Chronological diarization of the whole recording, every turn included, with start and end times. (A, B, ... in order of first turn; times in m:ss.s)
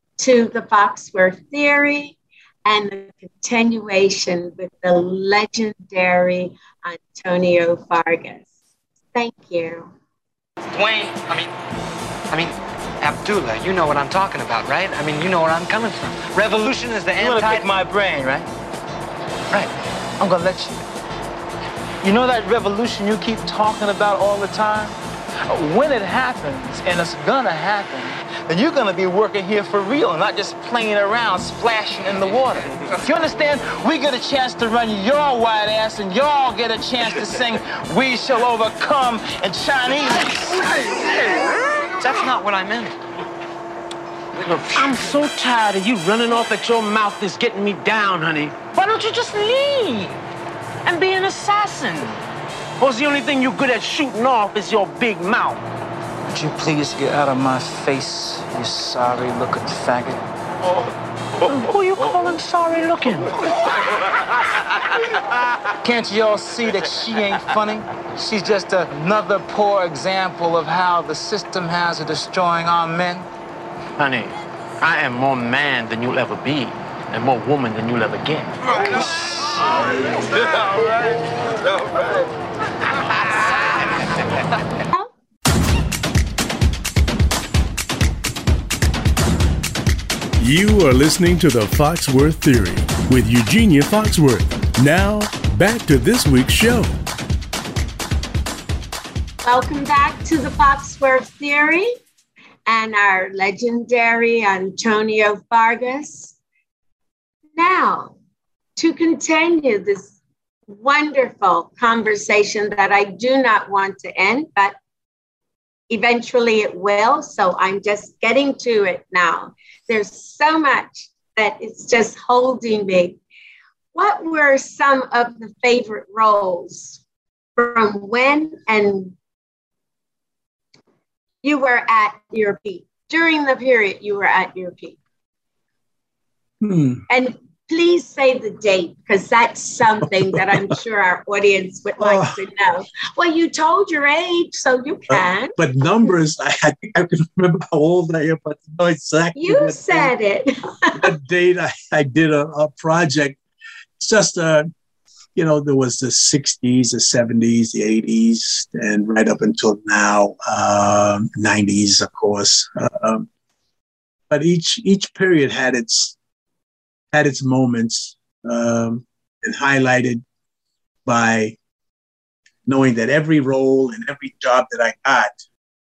0:00.2-0:08.4 A
0:09.1-0:09.9 A
0:10.7-0:11.4 B
0:12.3-0:17.7 C
0:17.2-0:18.5 B
0:20.2-0:20.8 B
0:22.0-0:24.9 B
0:25.5-0:40.7 B
0:42.0-0:43.0 C
0:44.4-0:48.6 D
0:48.7-0:50.2 B
0:50.8-0:52.2 B
0:52.8-0:55.6 D
0:56.3-1:00.2 B
1:01.5-1:03.4 D
1:05.8-1:13.3 B
1:14.0-1:19.0 D
1:30.4-1:36.9 E
1:39.4-1:42.0 A
1:42.6-1:46.4 A
1:47.6-1:48.1 A
1:48.8-1:50.1 A
1:50.7-1:54.7 A
1:55.9-2:03.2 A
2:03.9-2:07.0 A
2:07.6-2:09.1 A
2:11.4-2:15.0 A
2:16.6-2:17.0 F
2:17.1-2:25.5 A
2:20.3-2:20.6 F
2:22.0-2:22.4 F
2:25.1-2:30.1 F
2:29.4-2:31.1 A
2:30.9-2:33.4 F
2:34.0-2:34.7 F
2:35.4-2:43.3 F
2:44.3-2:46.2 F
2:47.1-2:50.2 F
2:51.0-2:51.6 F
2:52.6-2:55.4 F